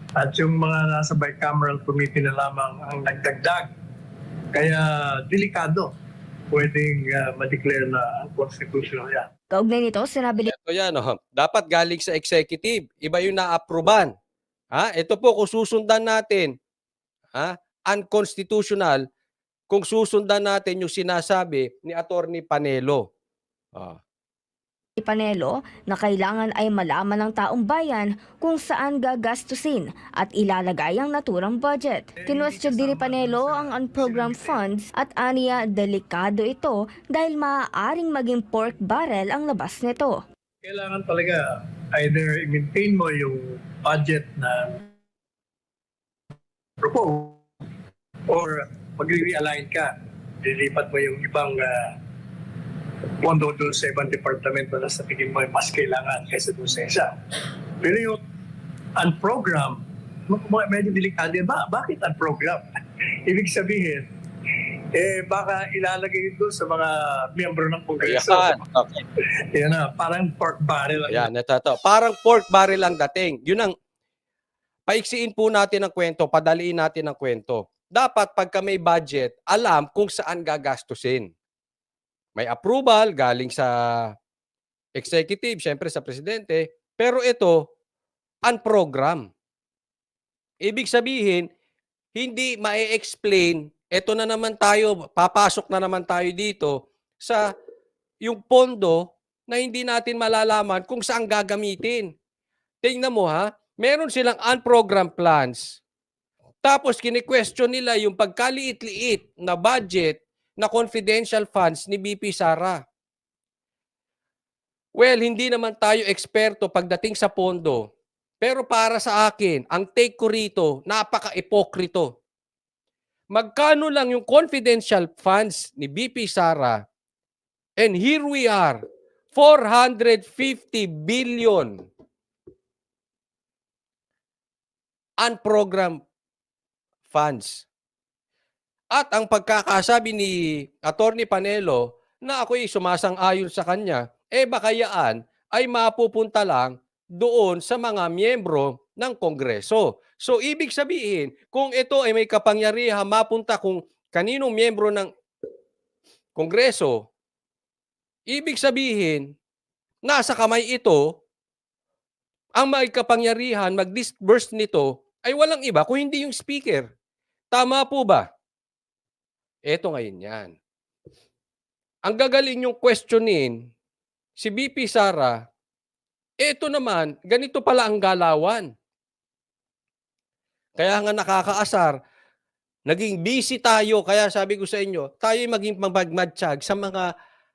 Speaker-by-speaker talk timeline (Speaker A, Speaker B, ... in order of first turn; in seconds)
Speaker A: 0.2-3.7, 4.5-5.9, 6.5-9.3, 32.2-34.6, 40.6-41.4, 41.9-44.8, 46.8-47.4, 48.3-51.9, 53.2-57.1, 57.8-58.2, 59.0-62.6, 63.3-64.0, 64.9-68.6, 69.5-71.3
Speaker B: 9.5-10.5, 25.0-40.1
Speaker C: 10.4-14.1, 14.7-16.5, 17.3-19.0, 19.7-23.1, 68.0-69.0, 71.1-73.7, 74.9-81.3, 82.3-84.1, 85.0-87.6, 88.4-89.3, 90.6-91.5, 92.1-97.5, 98.2-102.1, 102.8-105.8, 106.6-112.8, 115.0-117.9, 118.4-122.1, 123.3-126.8, 127.8-128.8, 129.3-131.8, 135.2-136.0, 137.1-137.6, 138.9-155.1, 156.3-157.0, 158.3-159.2, 160.0-161.1, 162.6-166.9, 167.5-168.3, 169.7-170.5, 172.0-173.6, 174.4-175.4, 176.4-178.7, 180.8-182.0, 182.8-187.1